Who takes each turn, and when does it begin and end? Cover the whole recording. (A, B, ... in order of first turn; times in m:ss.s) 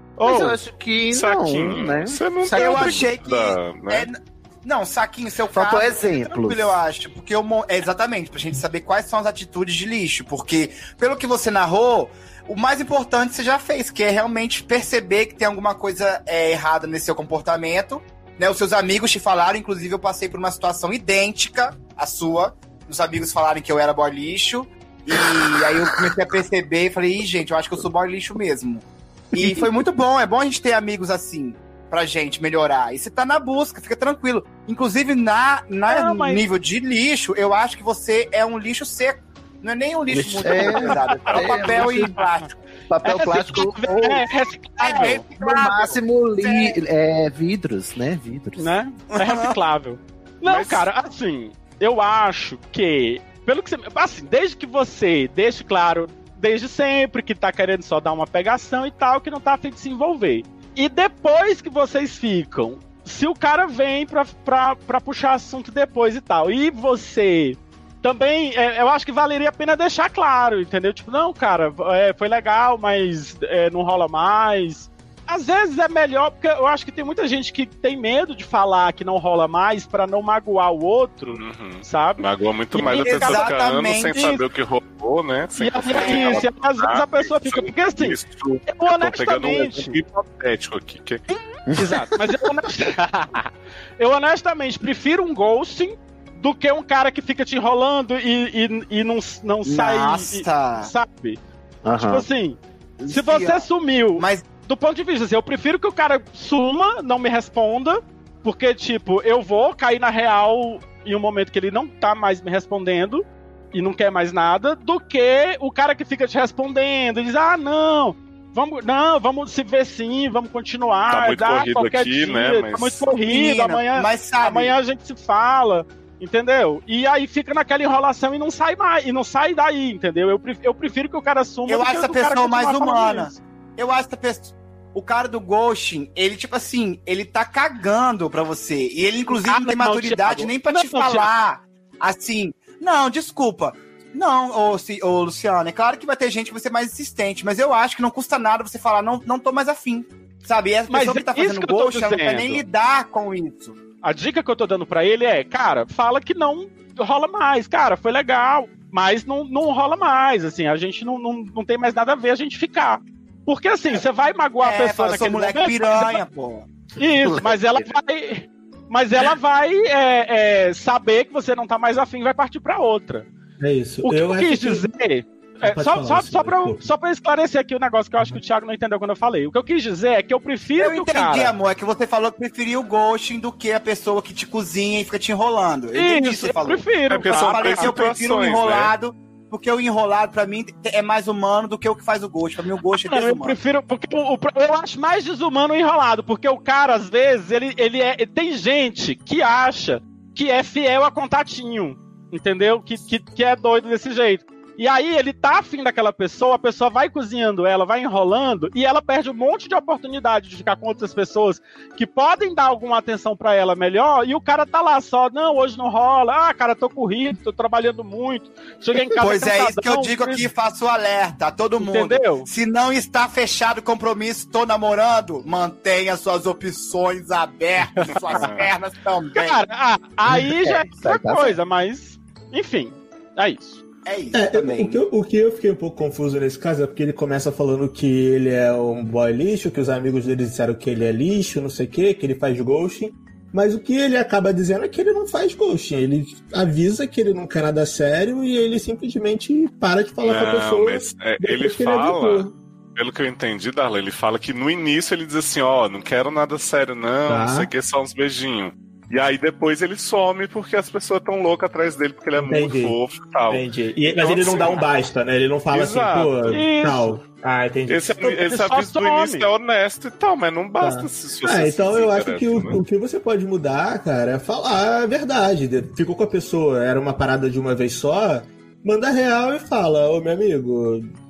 0:00.2-0:00.6 A
0:00.2-0:03.1 B
0:01.1-0:04.1 C
0:02.5-0:42.6 D
0:05.5-0:06.8 B
0:29.4-0:29.7 A
0:35.9-0:36.4 A
0:40.1-0:42.2 B
0:40.4-0:41.5 A
0:42.9-0:44.2 B
0:43.0-0:45.2 A
0:44.8-0:46.8 D
0:45.4-0:48.7 B
0:48.6-1:23.5 A
0:49.1-0:49.6 D
0:50.4-0:50.9 D
1:21.3-1:31.2 C
1:22.7-1:24.2 D
1:25.6-1:30.0 A
1:25.9-1:26.5 D
1:31.7-1:32.0 B
1:31.7-1:41.4 A
1:39.6-1:40.9 D
1:41.8-1:42.3 B
1:42.0-2:13.4 A
1:43.0-1:44.5 D
2:01.1-2:03.1 C
2:03.2-2:04.7 D
2:11.7-2:33.8 D
2:19.3-2:21.3 A
2:30.9-2:32.6 A
2:34.0-2:46.2 A
2:44.6-2:46.7 D
2:47.0-2:53.3 A
2:47.2-2:47.9 B
2:53.6-2:54.9 E
2:54.0-3:01.5 A
2:55.6-2:56.8 E
3:00.8-3:13.6 D
3:05.9-3:07.9 A
3:07.1-3:08.9 C
3:13.1-3:40.5 A
3:39.2-3:49.6 D
3:41.8-3:42.5 A
3:48.0-3:48.6 A
3:48.2-3:48.7 C
3:49.4-3:53.8 A
3:50.3-3:51.6 B
3:54.1-3:55.0 D
3:54.3-4:12.5 E
4:10.2-4:24.8 C
4:17.3-4:17.7 E
4:22.4-4:23.0 E
4:23.5-4:28.2 E
4:25.7-4:26.6 C
4:26.5-4:27.2 A
4:27.9-4:32.8 C
4:28.2-4:29.5 A
4:30.8-4:41.1 E